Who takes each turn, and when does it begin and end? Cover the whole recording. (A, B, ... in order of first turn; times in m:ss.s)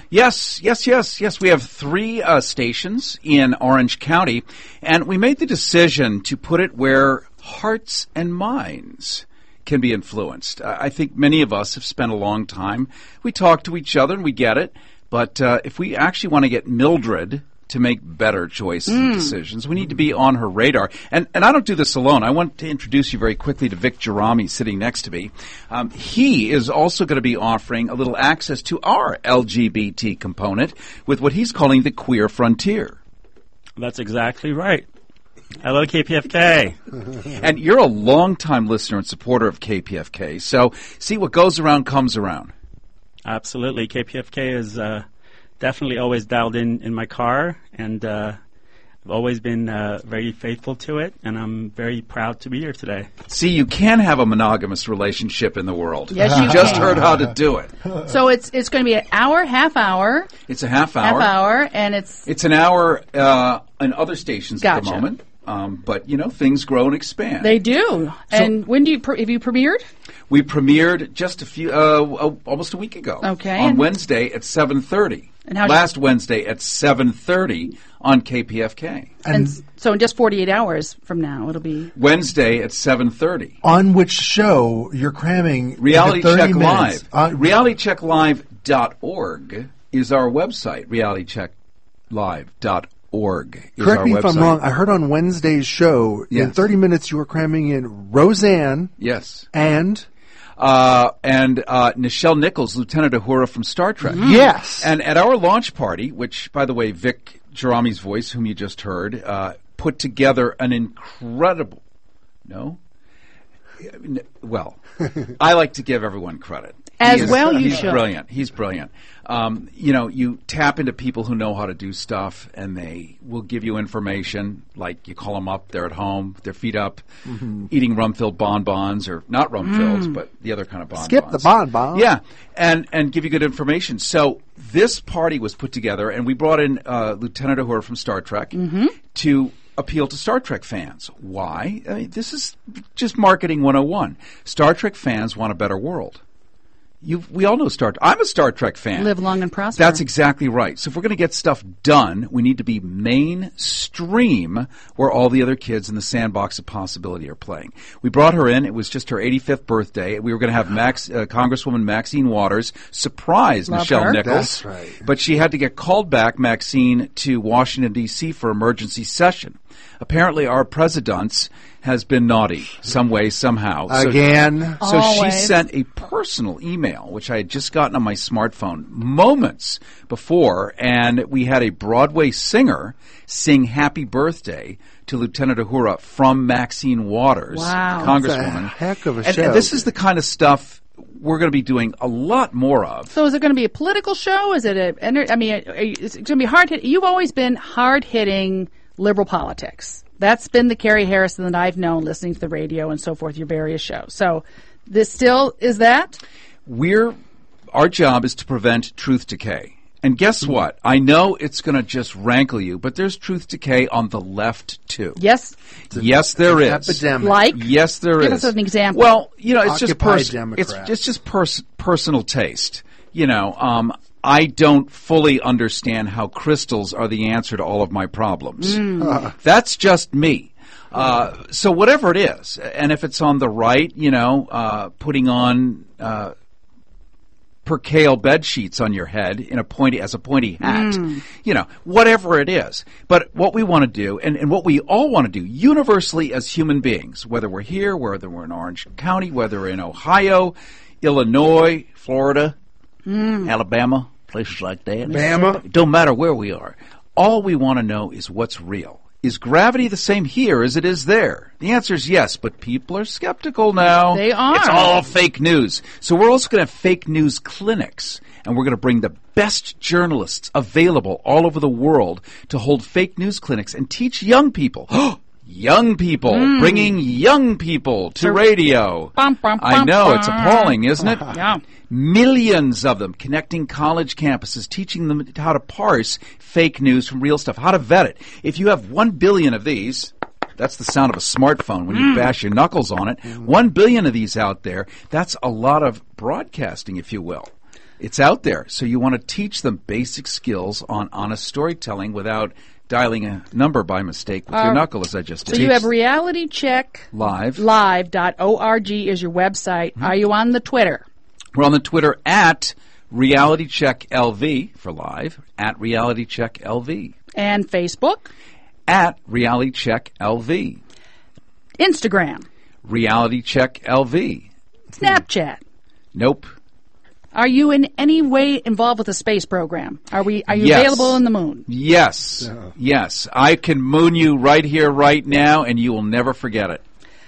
0:00.1-0:33.0 A
0:33.8-0:34.9 B
0:35.6-0:36.8 B
0:37.3-0:42.5 A
0:43.2-0:45.0 B
0:45.6-0:48.4 B
0:49.1-0:53.1 B
0:53.3-0:57.7 A
0:56.1-0:57.1 C
0:58.0-1:00.3 C
1:00.5-1:01.4 A
1:01.0-1:02.3 C
1:02.3-1:07.6 A
1:04.6-1:05.1 C
1:07.4-1:09.8 C
1:10.3-1:19.1 A
1:13.2-1:13.9 C
1:15.5-1:15.8 C
1:19.2-1:19.5 D
1:19.3-1:21.9 C
1:22.0-1:23.6 A
1:23.6-1:27.4 D
1:25.8-1:31.5 A
1:32.1-1:34.6 A
1:33.8-1:39.0 D
1:36.3-1:36.6 A
1:39.0-1:39.5 A
1:39.5-1:40.1 D
1:40.6-1:51.8 A
1:44.1-1:44.9 D
1:52.5-1:52.8 A
1:53.8-1:54.8 A
1:55.4-2:26.2 A
1:57.0-1:58.1 C
2:11.0-2:12.1 D
2:18.5-2:19.0 C
2:27.0-2:29.1 A
2:29.0-2:30.0 C
2:29.8-2:54.3 A
2:43.7-2:44.2 C
2:44.2-2:45.0 D
2:53.9-2:54.8 D
2:54.8-3:13.2 A
2:54.8-2:55.6 C
3:07.5-3:08.2 C
3:08.1-3:09.9 D
3:13.1-3:26.2 C
3:26.7-3:27.2 A
3:27.7-3:35.2 A
3:35.2-3:35.5 C
3:35.9-3:37.4 D
3:35.9-3:56.3 A
3:37.2-3:39.1 C
3:39.6-3:41.0 D
3:48.6-3:49.3 C
3:57.6-4:12.5 A
4:00.6-4:01.2 C
4:13.1-4:13.4 C
4:13.3-4:41.3 A
4:15.1-4:15.6 D
4:15.2-4:15.5 C
4:24.0-4:25.0 C
4:36.3-4:37.0 C
4:39.1-4:41.6 C
4:41.9-5:05.9 A
5:04.5-5:04.9 C
5:05.5-5:11.0 C
5:07.1-5:07.6 A
5:11.6-5:17.2 A
5:17.4-5:18.3 C
5:18.9-5:20.8 A
5:21.8-5:22.5 C
5:22.8-5:24.5 A
5:25.0-5:25.6 C
5:26.1-5:26.5 A
5:27.3-5:31.6 C
5:30.5-5:36.8 A